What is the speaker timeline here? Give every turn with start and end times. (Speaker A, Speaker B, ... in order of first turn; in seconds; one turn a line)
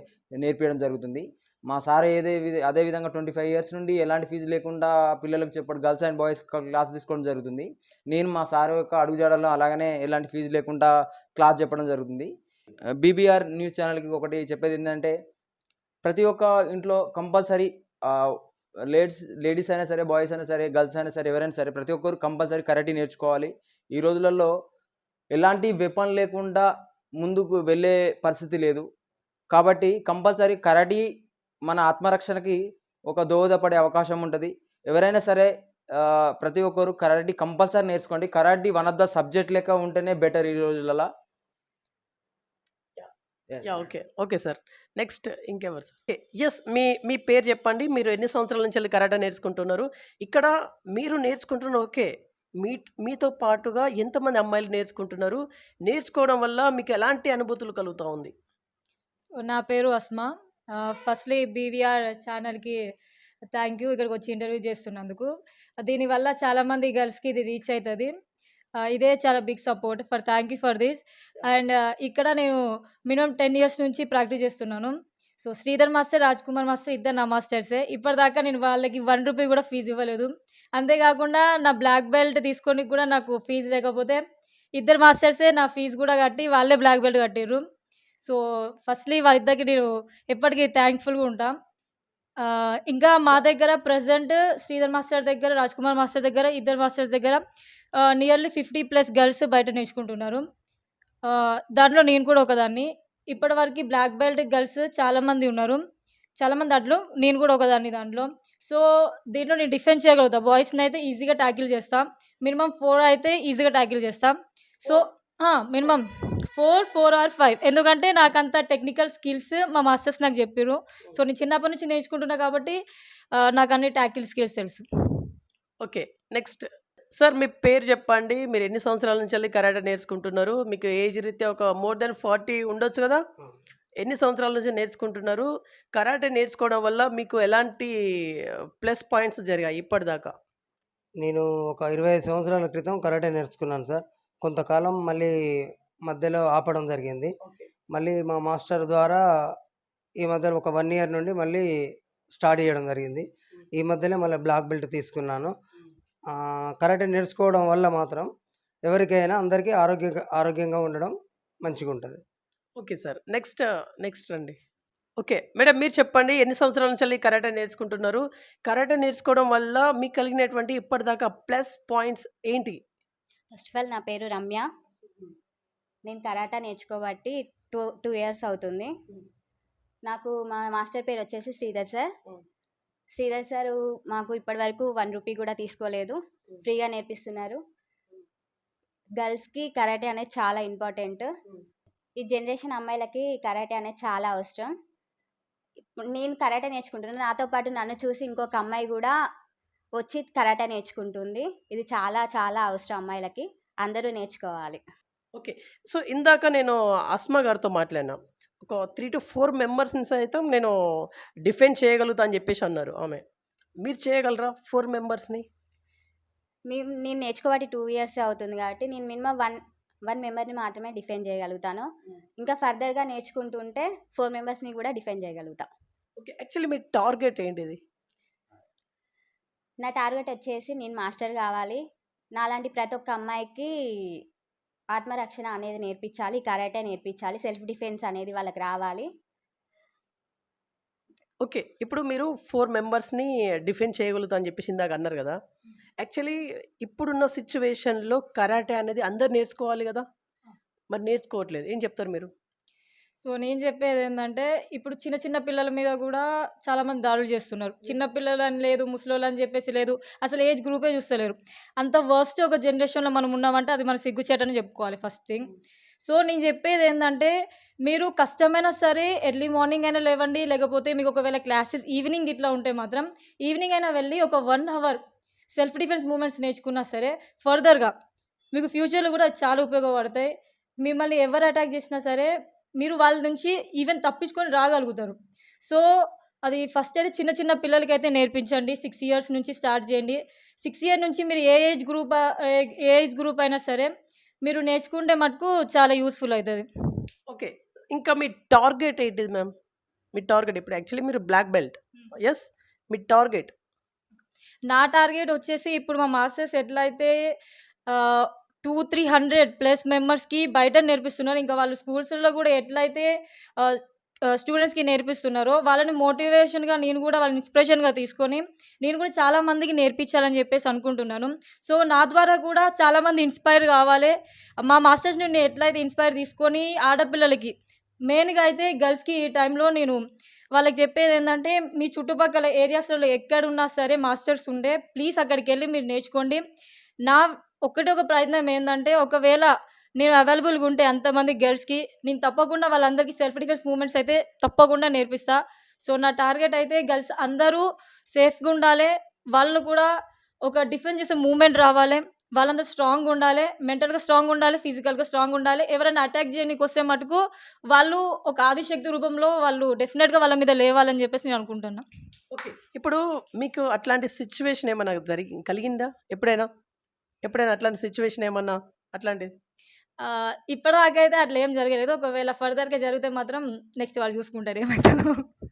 Speaker A: 0.4-12.3
Speaker A: 13.0-15.1
Speaker A: 16.1-24.5
Speaker A: 25.3-26.7
Speaker A: 27.2-28.9
Speaker A: 29.5-31.1
Speaker A: 31.7-41.1
Speaker A: 43.5-43.9
Speaker B: 43.6-58.3
Speaker C: 59.4-62.8
Speaker C: 63.5-68.1
Speaker C: 68.9-84.2
Speaker C: 84.8-87.6
Speaker C: 88.2-91.6
Speaker C: 92.4-97.4
Speaker C: 98.0-100.4
Speaker C: 101.2-105.8
Speaker C: 106.4-122.8
Speaker C: 123.3-124.8
Speaker B: 125.8-133.2
Speaker B: 134.0-140.3
Speaker D: 141.2-147.3
Speaker B: 147.4-147.7
Speaker D: 147.9-149.2
Speaker D: 150.2-151.7
Speaker D: 152.3-155.5
Speaker D: 156.3-158.3
Speaker D: 158.9-162.2
Speaker B: 162.8-164.6
Speaker B: 165.2-172.8
Speaker E: 173.5-174.7
Speaker E: 176.1-178.9
Speaker E: 180.1-182.1
Speaker E: 183.2-187.6
Speaker E: 189.2-191.3
Speaker E: 192.2-194.7
Speaker E: 195.9-199.2
Speaker E: 200.0-204.8
Speaker B: 205.4-213.2
Speaker B: 213.8-215.5
Speaker E: 216.7-221.9
Speaker E: 222.4-225.7
Speaker B: 226.2-227.8
Speaker E: 229.8-231.8
Speaker E: 232.4-234.2
Speaker E: 234.9-239.1
Speaker B: 241.4-245.4
Speaker B: 246.0-250.1
Speaker B: 250.9-252.3
Speaker C: 253.2-265.5
Speaker C: 266.0-267.3
Speaker C: 267.8-275.0
Speaker C: 275.6-277.9
Speaker C: 278.5-280.3
Speaker C: 280.8-285.8
Speaker C: 286.5-296.6
Speaker B: 297.3-299.5
Speaker B: 300.1-303.5
Speaker C: 304.7-307.1
Speaker C: 307.9-327.5
Speaker C: 328.1-330.0
Speaker C: 330.5-336.4
Speaker C: 337.1-349.9
Speaker C: 350.5-361.8
Speaker B: 362.3-366.5
Speaker B: 367.2-369.3
Speaker C: 370.0-375.3